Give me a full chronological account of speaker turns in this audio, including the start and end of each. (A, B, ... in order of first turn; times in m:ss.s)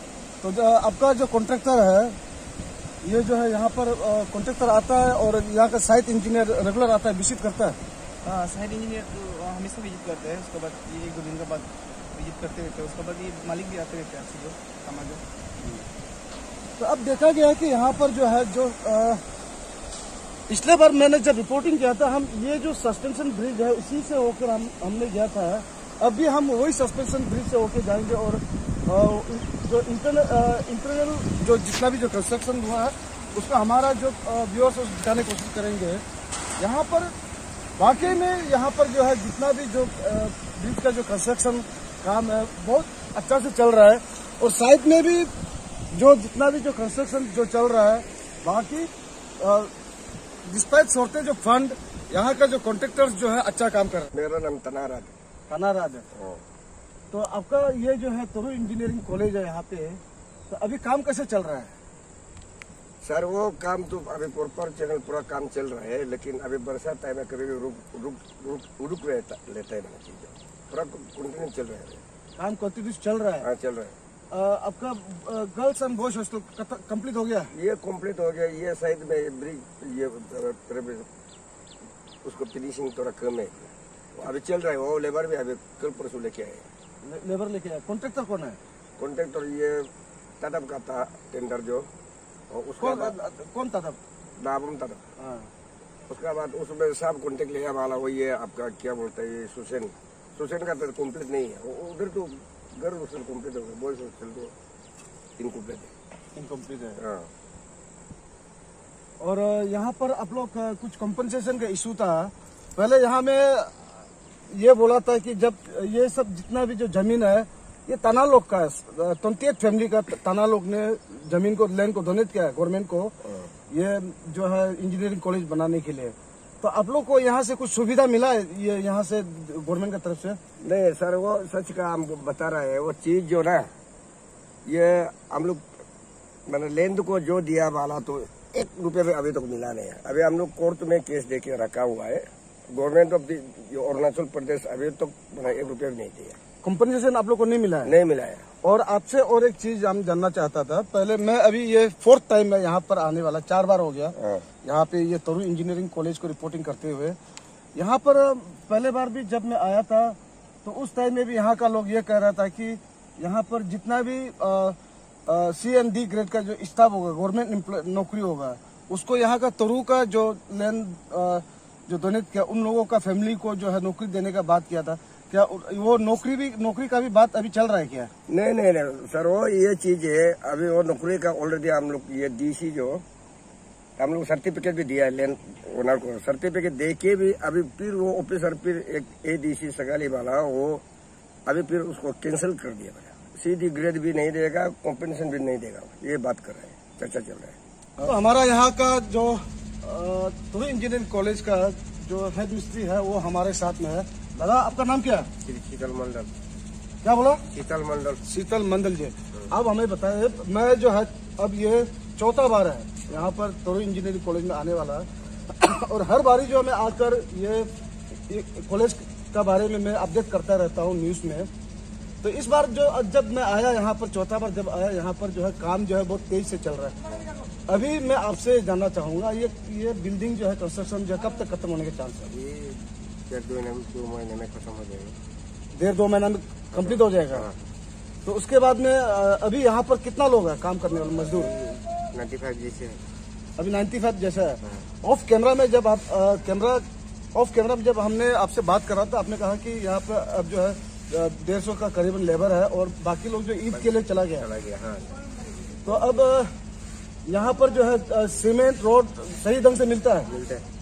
0:00.4-0:02.2 A
0:03.0-0:07.8 A
0:08.2-0:15.2 B
0:16.8-0:19.2 A
0:20.5-0:36.0 A
0:36.6-0:37.1 A
0:37.8-0:45.3 A
0:45.9-0:48.9 A
0:49.4-0:49.7 A
0:50.5-0:54.1 A
0:54.1-0:55.2 C
0:55.5-0:56.1 A
0:56.2-0:56.4 C
0:57.1-1:01.7 A
1:03.0-1:12.0 C
1:12.4-1:13.5 A
1:13.4-1:14.0 C
1:14.3-1:17.5 A
1:17.5-1:21.1 C
1:22.2-1:26.7 C
1:27.0-1:28.6 A
1:29.0-1:31.9 C
1:32.5-1:33.2 C
1:32.8-1:34.0 A
1:34.4-1:35.0 C
1:35.2-1:35.5 A
1:36.1-1:44.5 C
1:45.4-1:45.9 C
1:46.4-1:47.0 A
1:47.0-1:47.3 C
1:49.2-1:53.9 A
1:54.5-2:03.1 A
2:03.7-2:10.4 A
2:10.6-2:13.7 C
2:14.7-2:15.6 C
2:16.5-2:26.4 C
2:26.6-2:27.9 A
2:27.8-2:28.5 C
2:28.6-2:37.2 A
2:34.2-2:34.4 C
2:37.8-2:58.1 A
2:58.3-3:03.0 C
3:04.0-3:10.8 C
3:11.5-3:17.6 C
3:18.0-3:25.3 A
3:25.4-3:26.3 C
3:27.0-3:27.4 A
3:27.5-3:28.2 C
3:28.2-3:37.7 A
3:38.3-3:41.5 A
3:42.2-3:47.0 A
3:47.7-3:52.3 A
3:52.3-3:55.2 C
3:55.8-3:57.5 A
3:56.8-3:57.6 C
3:58.2-4:01.5 A
4:01.3-4:03.0 C
4:03.6-4:06.8 A
4:07.4-4:14.5 A
4:13.7-4:15.1 C
4:15.8-4:16.5 A
4:17.3-4:20.3 A
4:20.3-4:20.6 C